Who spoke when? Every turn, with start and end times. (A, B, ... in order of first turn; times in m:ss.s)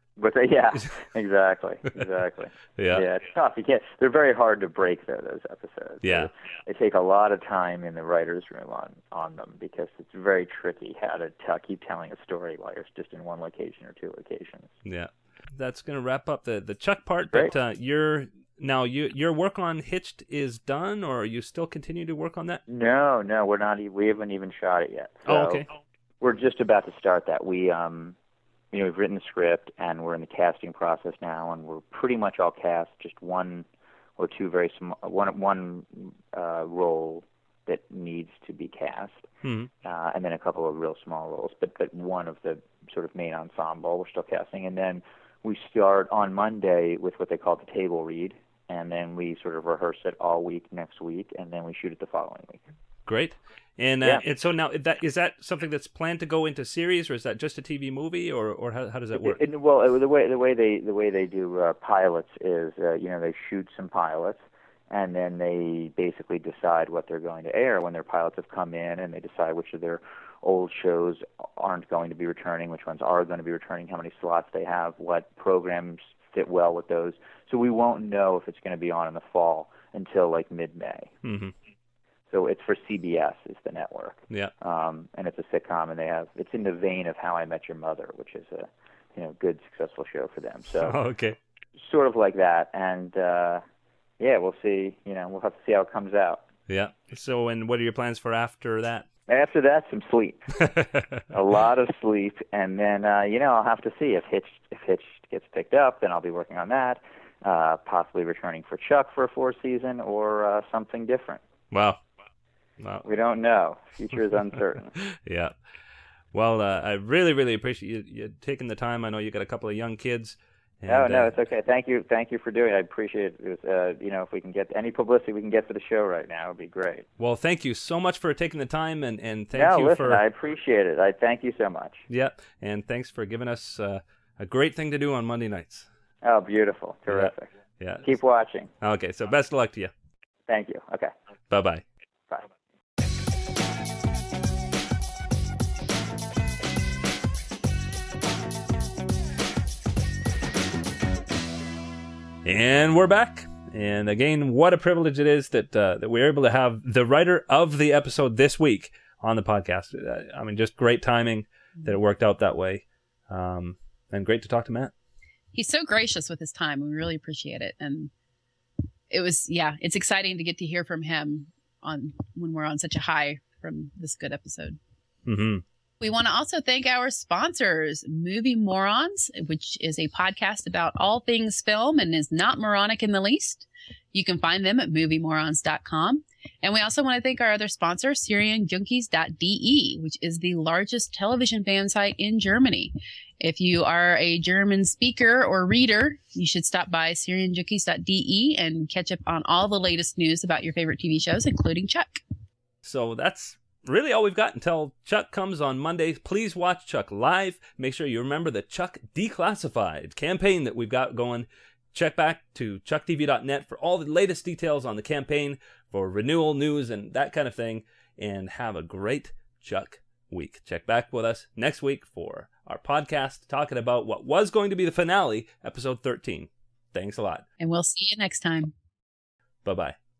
0:00.2-0:14.7 A
0:02.8-0:03.0 B
0:06.0-0:06.3 B
0:14.9-0:22.6 B
0:22.7-0:25.6 A
0:25.3-0:25.7 B
0:26.2-0:28.2 A
0:28.7-0:33.7 A
0:34.2-0:39.3 A
0:39.4-0:39.7 B
0:39.8-0:52.6 A
0:53.1-0:59.4 B
0:59.2-1:21.1 A
1:21.2-1:21.5 B
1:22.3-1:31.0 A
1:30.8-1:31.4 B
1:31.8-1:33.6 A
1:34.2-1:36.4 A
1:36.7-1:39.1 B
1:39.3-1:40.4 A
1:40.6-1:41.2 B
1:41.3-1:51.4 A
1:51.7-1:52.0 B
1:53.0-1:55.0 A
1:55.0-1:55.5 B
1:56.3-2:01.4 B
2:00.9-2:07.1 A
2:07.2-2:10.2 B
2:09.5-2:12.0 A
2:12.1-2:15.9 B
2:16.2-2:17.5 A
2:17.1-2:18.1 B
2:18.0-2:18.7 A
2:18.8-2:19.9 B
2:20.5-2:21.1 A
2:21.5-2:21.8 B
2:32.4-2:44.9 B
2:45.5-2:48.1 C
2:49.1-2:54.8 C
2:55.3-2:55.6 B
2:56.0-3:22.2 C
3:22.8-3:47.4 B
3:47.6-3:48.7 C
3:49.6-3:50.0 B